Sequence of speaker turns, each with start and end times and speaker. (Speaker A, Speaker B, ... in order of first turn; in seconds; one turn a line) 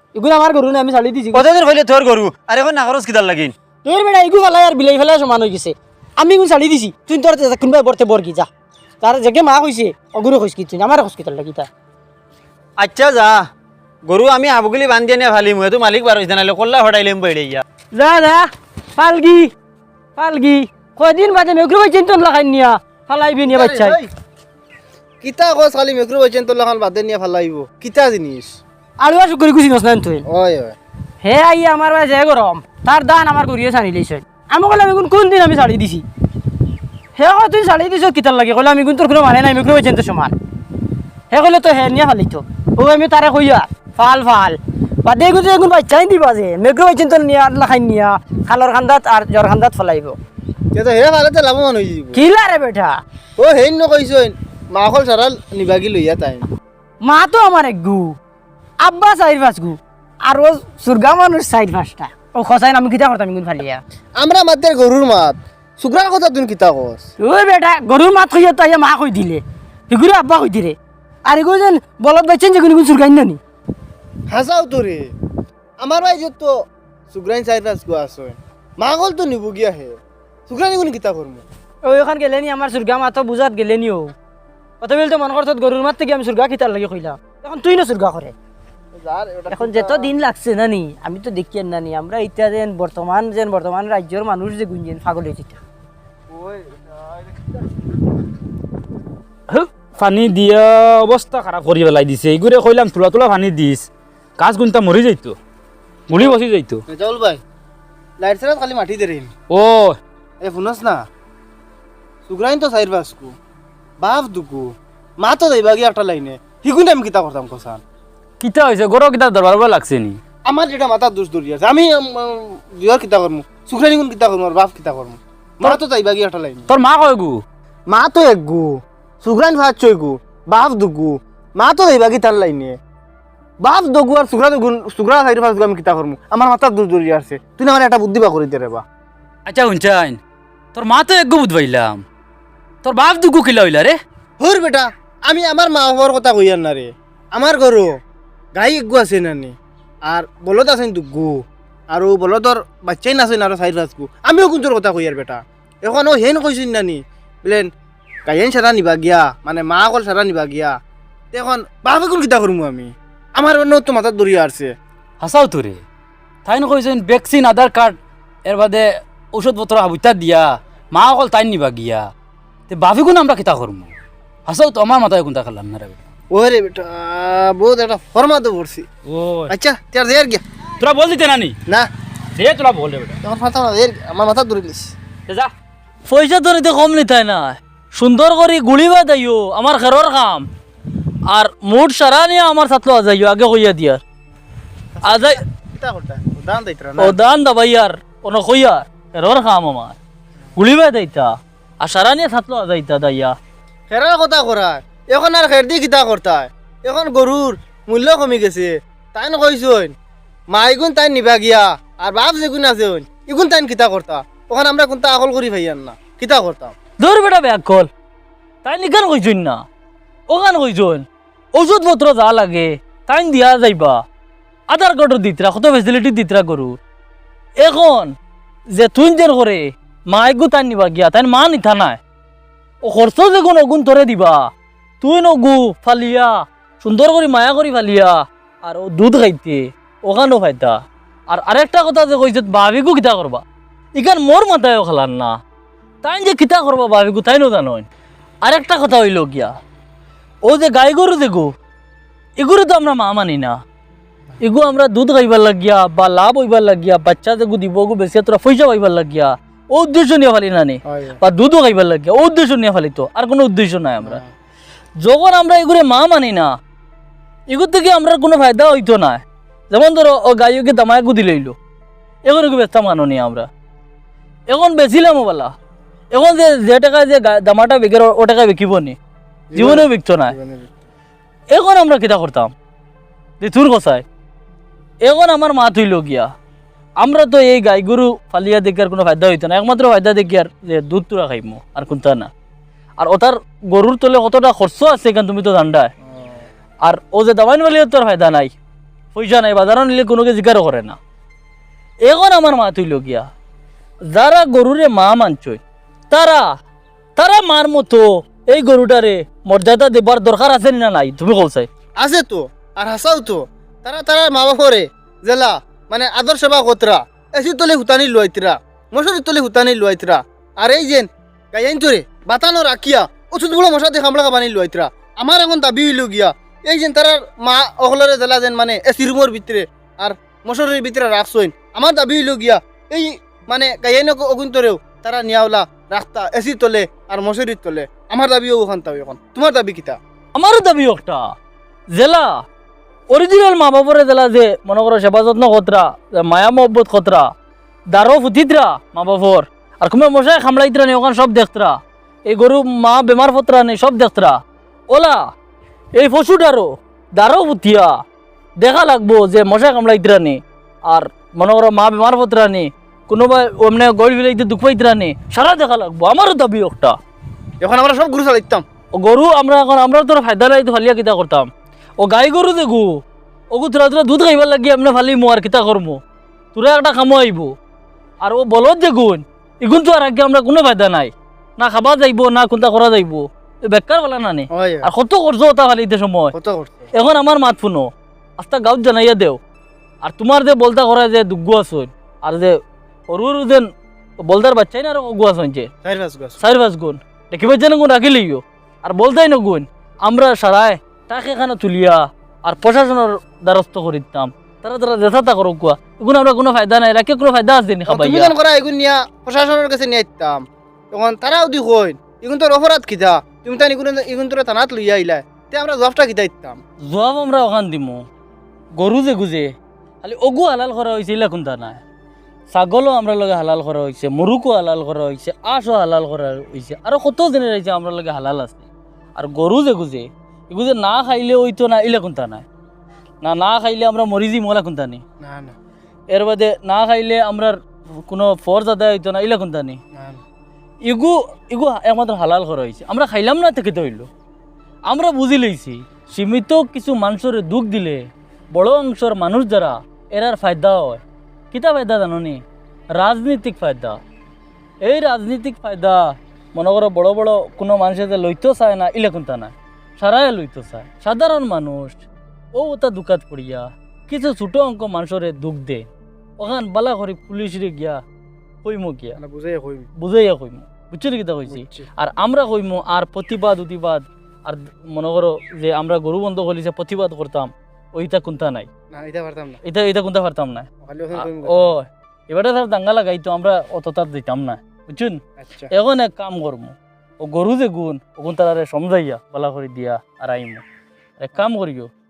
Speaker A: 0.1-1.5
Speaker B: 1.3-3.5
Speaker A: 3.8-8.5
Speaker A: 9.0-11.7
Speaker B: 12.8-13.5
Speaker B: 14.0-17.6
Speaker A: 17.9-19.5
Speaker A: 20.2-24.0
Speaker C: 23.5-24.1
Speaker C: 25.2-28.6
Speaker A: 29.0-30.2
Speaker C: 30.3-30.8
Speaker A: 31.2-36.0
Speaker A: 37.2-40.4
Speaker A: 41.3-50.2
Speaker C: 50.7-52.2
Speaker A: 52.1-53.0
Speaker C: 53.4-56.5
Speaker A: 57.0-58.2
Speaker A: 58.8-63.8
Speaker C: 64.2-67.1
Speaker A: 67.2-73.4
Speaker C: 74.3-75.1
Speaker C: 75.8-76.5
Speaker C: 77.1-80.0
Speaker C: 80.5-81.4
Speaker A: 81.8-84.1
Speaker A: 84.8-88.3
Speaker C: 88.9-90.1
Speaker A: 89.5-95.6
Speaker C: 96.3-97.6
Speaker D: 99.5-103.9
Speaker D: 104.4-105.3
Speaker D: 106.1-106.8
Speaker C: 106.9-107.4
Speaker C: 108.2-109.3
Speaker D: 109.5-110.0
Speaker C: 110.4-111.0
Speaker C: 112.3-113.3
Speaker C: 114.0-114.7
Speaker C: 115.2-117.8
Speaker D: 118.4-120.2
Speaker C: 120.5-126.7
Speaker D: 126.7-127.4
Speaker C: 127.9-132.8
Speaker C: 133.6-138.8
Speaker D: 139.5-140.2
Speaker D: 140.8-142.0
Speaker D: 142.8-144.0
Speaker C: 144.4-147.9
Speaker C: 148.6-149.5
Speaker C: 150.1-157.7
Speaker C: 158.3-160.8
Speaker C: 161.3-164.7
Speaker D: 165.2-165.8
Speaker D: 166.4-172.1
Speaker D: 172.7-173.9
Speaker D: 174.5-176.0
Speaker C: 176.3-178.8
Speaker D: 179.1-179.5
Speaker C: 179.5-180.4
Speaker D: 180.8-181.6
Speaker D: 182.4-183.2
Speaker C: 183.2-184.9
Speaker E: 186.1-190.5
Speaker E: 191.3-194.0
Speaker C: 195.0-197.2
Speaker E: 195.0-195.4
Speaker E: 197.0-200.0
Speaker E: 200.6-203.3
Speaker C: 203.9-209.9
Speaker C: 210.5-216.7
Speaker E: 217.0-217.9
Speaker E: 218.6-219.6
Speaker E: 220.3-221.0
Speaker E: 221.6-224.0
Speaker E: 224.7-226.8
Speaker E: 227.6-228.1
Speaker E: 228.7-232.0
Speaker E: 232.8-234.5
Speaker E: 235.0-240.8
Speaker E: 241.3-243.4
Speaker E: 244.0-245.3
Speaker E: 246.0-247.9
Speaker E: 248.4-249.5
Speaker E: 250.4-251.5
Speaker E: 252.4-253.6
Speaker E: 254.4-264.2
Speaker C: 260.9-261.2
Speaker C: 264.0-264.3
Speaker E: 265.0-266.5
Speaker E: 267.5-271.6
Speaker E: 272.2-273.5
Speaker E: 274.5-275.5
Speaker E: 276.1-279.0
Speaker C: 279.5-280.7
Speaker E: 279.6-280.3
Speaker E: 281.5-282.5
Speaker E: 283.4-284.0
Speaker E: 285.0-286.3
Speaker E: 287.0-292.3
Speaker E: 293.0-295.9
Speaker E: 296.8-298.5
Speaker E: 299.1-301.0
Speaker E: 302.1-303.3
Speaker E: 304.1-306.5
Speaker E: 307.2-311.7
Speaker C: 312.0-340.0
Speaker E: 340.4-341.3
Speaker E: 341.9-342.4
Speaker E: 343.1-347.3
Speaker E: 347.9-354.4
Speaker E: 354.9-355.3
Speaker E: 355.9-357.9
Speaker E: 358.6-367.0
Speaker C: 367.6-368.6
Speaker E: 368.9-371.5
Speaker E: 372.0-372.9
Speaker E: 373.5-376.0
Speaker E: 376.5-377.5
Speaker E: 378.2-386.3
Speaker C: 384.5-384.9
Speaker C: 386.3-386.9
Speaker E: 386.9-389.4
Speaker E: 390.0-392.6
Speaker E: 393.1-393.7
Speaker E: 394.2-395.7
Speaker C: 395.8-396.4
Speaker E: 396.4-408.3
Speaker C: 407.9-416.6
Speaker E: 416.9-418.1
Speaker E: 418.8-419.5
Speaker E: 420.0-421.8
Speaker E: 422.5-432.4
Speaker E: 433.2-435.0
Speaker C: 435.2-435.6
Speaker E: 436.1-439.8
Speaker C: 440.0-440.2
Speaker E: 440.9-444.1
Speaker E: 444.9-452.4
Speaker E: 452.9-454.0
Speaker E: 454.8-462.0
Speaker E: 462.6-468.0
Speaker E: 468.6-469.2
Speaker C: 469.2-469.9
Speaker E: 470.0-478.7
Speaker C: 471.5-471.9
Speaker C: 478.9-479.6
Speaker E: 479.6-485.2
Speaker C: 480.8-481.7
Speaker C: 485.4-485.7
Speaker E: 485.7-490.6
Speaker E: 491.2-491.9